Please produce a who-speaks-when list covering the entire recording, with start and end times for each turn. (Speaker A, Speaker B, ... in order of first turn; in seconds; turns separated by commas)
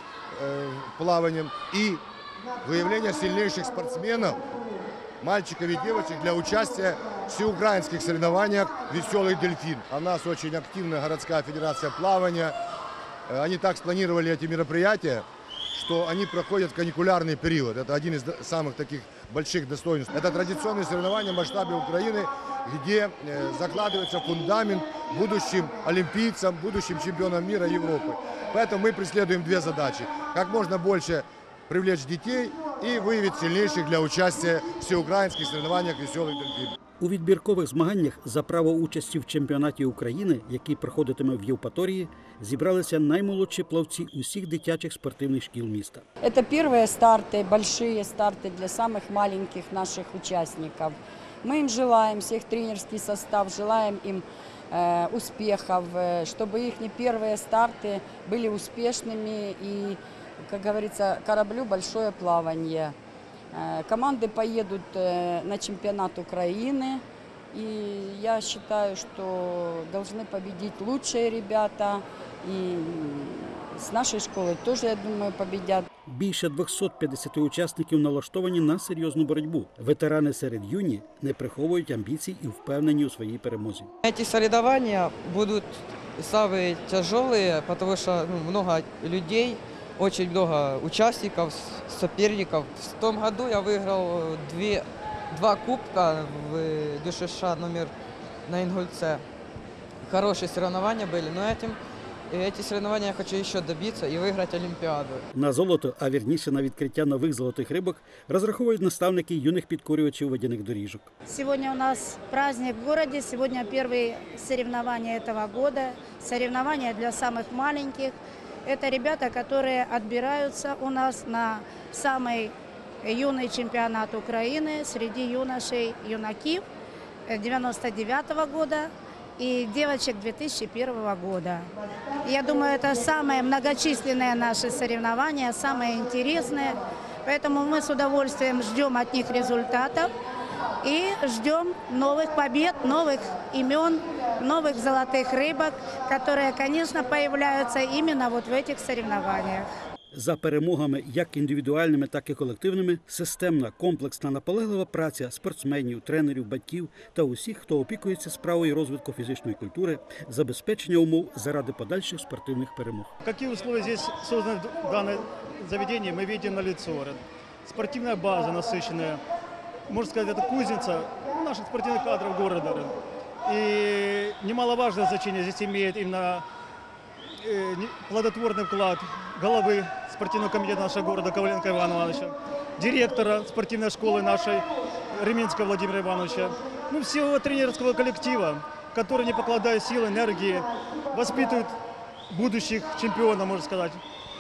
Speaker A: 0.3-2.0, Speaker A: 2.6-4.4, Speaker A: 5.2-12.6, Speaker A: 13.3-36.7, Speaker B: 37.0-46.0, Speaker C: 46.2-62.9, Speaker C: 63.5-75.9, Speaker B: 76.0-83.9, Speaker D: 84.0-97.9, Speaker D: 98.5-99.2, Speaker D: 100.0-101.8, Speaker D: 102.3-105.2, Speaker B: 105.3-111.1, Speaker E: 111.3-118.1, Speaker E: 118.7-126.6, Speaker E: 127.3-131.7, Speaker E: 132.2-140.1, Speaker E: 140.8-149.7, Speaker B: 150.1-163.1, Speaker F: 163.2-169.2, Speaker F: 169.9-172.9, Speaker F: 173.4-176.4, Speaker F: 177.4-191.7, Speaker F: 192.3-194.0